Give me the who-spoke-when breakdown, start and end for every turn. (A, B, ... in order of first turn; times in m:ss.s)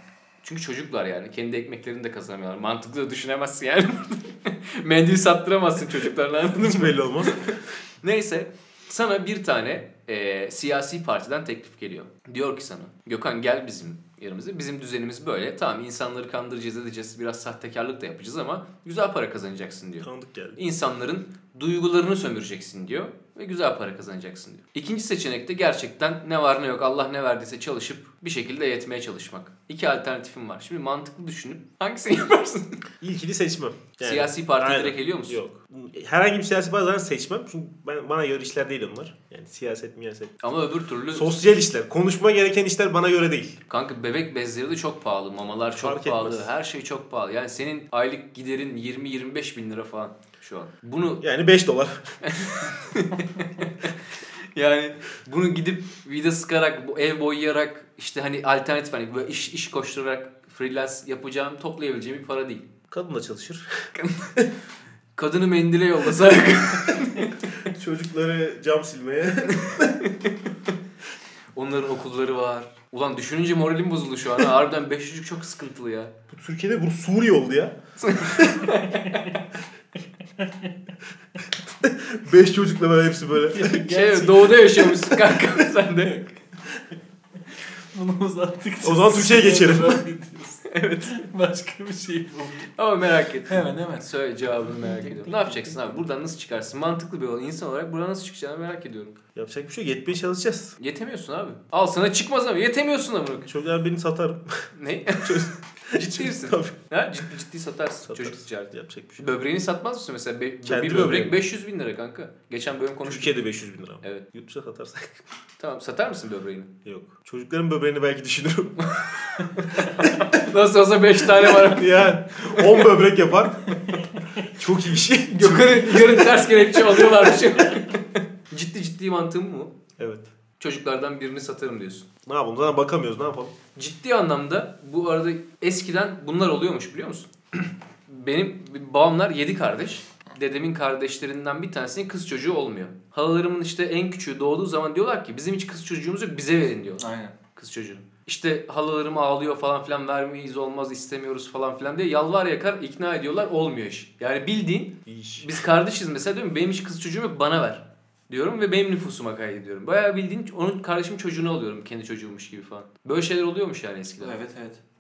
0:00.4-0:32.9 A
0:06.6-0:07.6 B
0:20.0-0:20.6 B
0:33.0-0:40.4 B
0:34.0-0:35.4 A
0:40.4-0:41.4 A
0:41.1-0:43.6 B
0:43.7-0:51.2 A
0:45.7-0:46.5 B
0:51.2-0:52.2 B
0:52.2-0:54.0 A
0:54.5-1:02.7 A
1:02.9-1:04.4 B
1:04.0-1:04.5 A
1:05.2-1:07.5 A
1:07.7-1:09.9 B
1:09.8-1:10.4 A
1:11.6-1:16.1 A
1:16.3-1:17.8 B
1:18.0-1:19.3 A
1:20.4-1:20.7 C
1:21.8-1:23.8 B
1:23.5-1:24.9 C
1:23.8-1:26.3 A
1:27.9-1:32.7 C
1:28.8-1:30.0 B
1:30.7-1:31.2 A
1:32.8-1:39.2 A
1:33.5-1:34.1 C
1:34.8-1:35.9 C
1:39.4-1:40.8 B
1:40.8-1:43.5 A
1:43.5-1:46.8 B
1:44.8-1:53.4 A
1:48.1-1:49.3 B
1:50.6-1:51.4 B
1:53.0-1:55.2 B
1:55.6-1:56.7 A
1:56.8-1:59.0 B
1:58.8-2:02.6 A
2:00.0-2:00.3 B
2:01.5-2:06.4 B
2:05.3-2:09.8 A
2:10.0-2:10.3 B
2:10.6-2:12.1 A
2:12.3-2:13.6 B
2:13.8-2:27.0 A
2:27.0-2:27.4 C
2:27.6-2:44.4 A
2:35.1-2:35.5 B
2:44.2-2:44.8 C